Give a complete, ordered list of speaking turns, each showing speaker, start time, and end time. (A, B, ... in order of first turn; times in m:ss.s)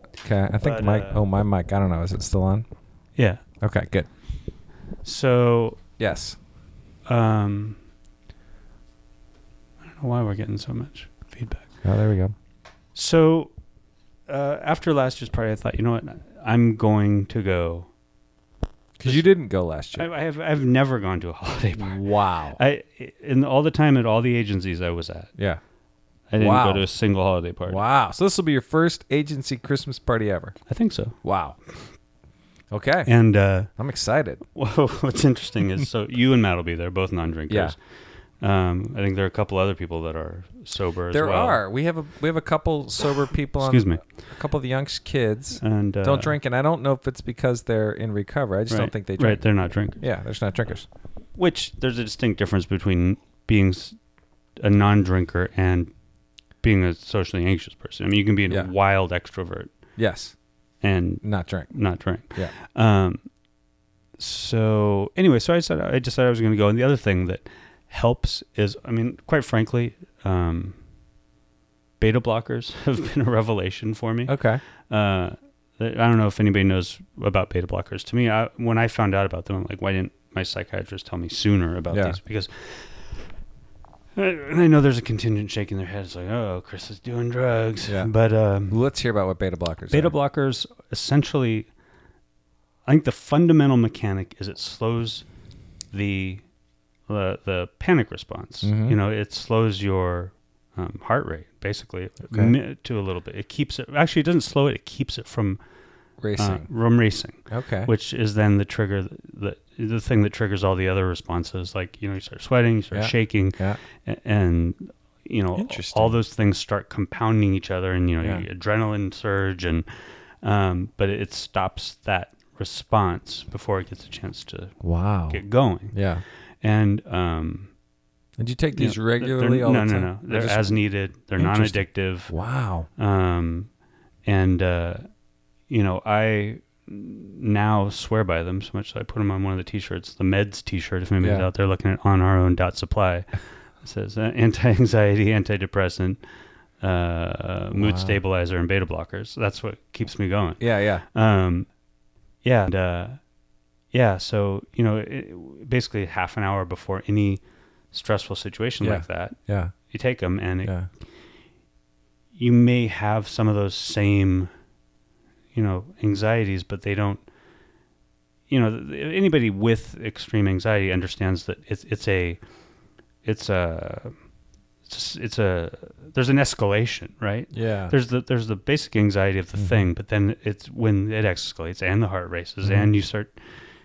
0:00.2-0:02.7 A
0:00.6-0:01.2 B
0:03.2-0:03.4 B
0:03.6-0:04.1 A
0:05.0-0:05.8 B
0:06.0-0:06.4 A
0:07.1-0:07.8 B
0:09.9-0:11.7 B
0:11.8-0:12.4 A
0:12.9-0:13.5 B
0:14.3-0:17.9 B
0:19.0-0:20.1 A
0:19.9-0:25.3 B
0:21.8-0:22.6 A
0:26.3-0:27.8 B
0:26.4-0:26.9 A
0:27.7-0:30.6 A
0:30.7-0:31.2 B
0:31.2-0:31.6 A
0:32.7-0:33.1 A
0:33.1-0:33.7 B
0:33.7-0:34.4 A
0:34.5-0:37.8 B
0:37.5-0:37.8 A
0:38.4-0:41.6 B
0:41.1-0:49.4 A
0:43.6-0:44.0 B
0:45.6-0:46.4 B
0:48.7-0:50.0 B
0:50.0-0:50.9 A
0:51.4-0:54.0 B
0:54.6-0:55.9 B
0:56.6-0:59.7 B
1:00.0-1:00.4 A
1:00.8-1:03.2 B
1:01.2-1:01.7 A
1:04.2-1:10.8 B
1:12.0-1:23.0 B
1:14.3-1:14.6 A
1:21.9-1:22.2 A
1:24.2-1:28.8 B
1:27.9-1:28.1 A
1:28.7-1:30.1 A
1:29.9-1:31.7 B
1:32.8-1:35.2 B
1:35.9-1:36.4 B
1:37.1-1:45.6 B
1:38.6-1:39.0 A
1:42.3-1:42.6 A
1:46.2-1:46.7 A
1:46.4-1:59.9 B
1:47.5-1:47.9 A
1:52.9-1:53.8 A
1:55.6-1:56.2 A
2:00.4-2:04.8 B
2:04.8-2:06.2 A
2:05.3-2:06.0 B
2:06.6-2:07.7 B
2:08.4-2:10.8 A
2:08.8-2:12.3 B
2:11.4-2:12.9 A
2:13.0-2:13.7 B
2:14.2-2:15.1 B
2:15.7-2:26.2 B
2:21.2-2:21.5 A
2:26.8-2:31.7 B
2:27.7-2:28.2 A
2:30.6-2:31.0 A
2:32.4-2:33.2 B
2:33.9-2:39.4 B
2:38.8-2:39.8 A
2:39.9-2:40.7 B
2:42.3-2:44.5 B
2:45.5-2:47.2 B
2:48.5-2:52.4 B
2:53.2-2:54.2 B
2:54.9-3:03.4 B
2:57.5-2:57.9 A
3:02.6-3:02.9 A